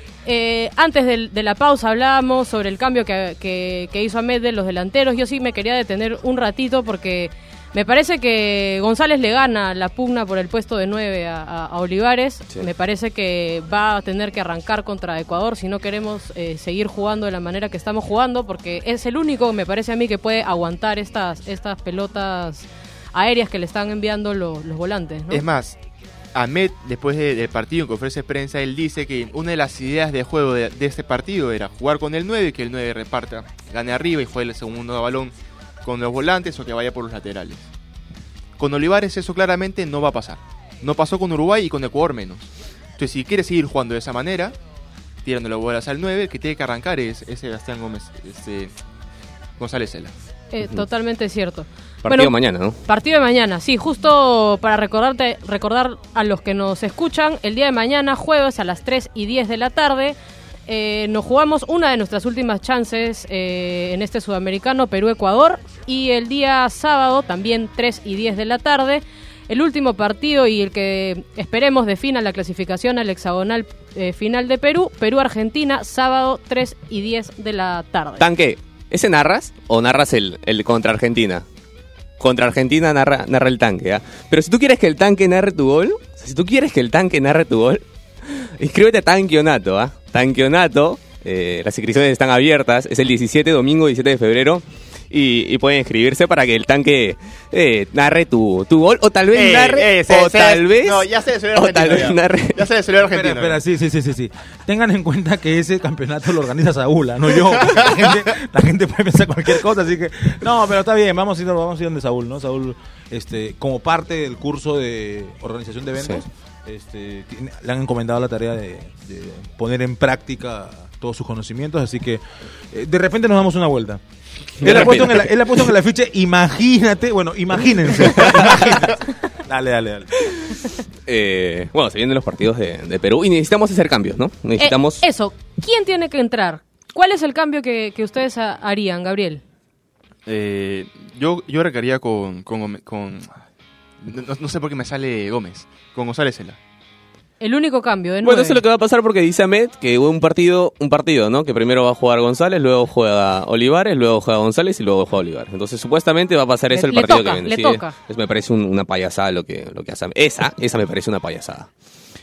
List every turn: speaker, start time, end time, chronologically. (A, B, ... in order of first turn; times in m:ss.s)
0:00.3-0:25.4 A
0:25.3-0:25.8 B
0:26.3-0:37.7 B
0:38.6-0:44.6 B
0:45.2-0:48.7 B
0:49.6-0:50.2 B
0:50.5-1:00.2 A
0:52.0-0:52.8 C
1:00.7-1:18.3 A
1:18.2-1:21.4 C
1:22.2-1:42.7 C
1:39.3-1:43.6 B
1:43.1-2:02.2 D
1:47.6-1:48.1 B
2:02.7-2:04.0 D
2:04.6-2:10.2 D
2:04.6-2:05.7 C
2:08.2-2:08.7 C
2:10.2-2:10.6 C
2:11.1-2:15.0 C
2:14.6-2:19.4 A
2:20.3-2:23.4 B
2:24.0-2:26.6 B
2:27.4-2:28.6 A
2:28.2-2:41.7 C
2:36.7-2:37.9 A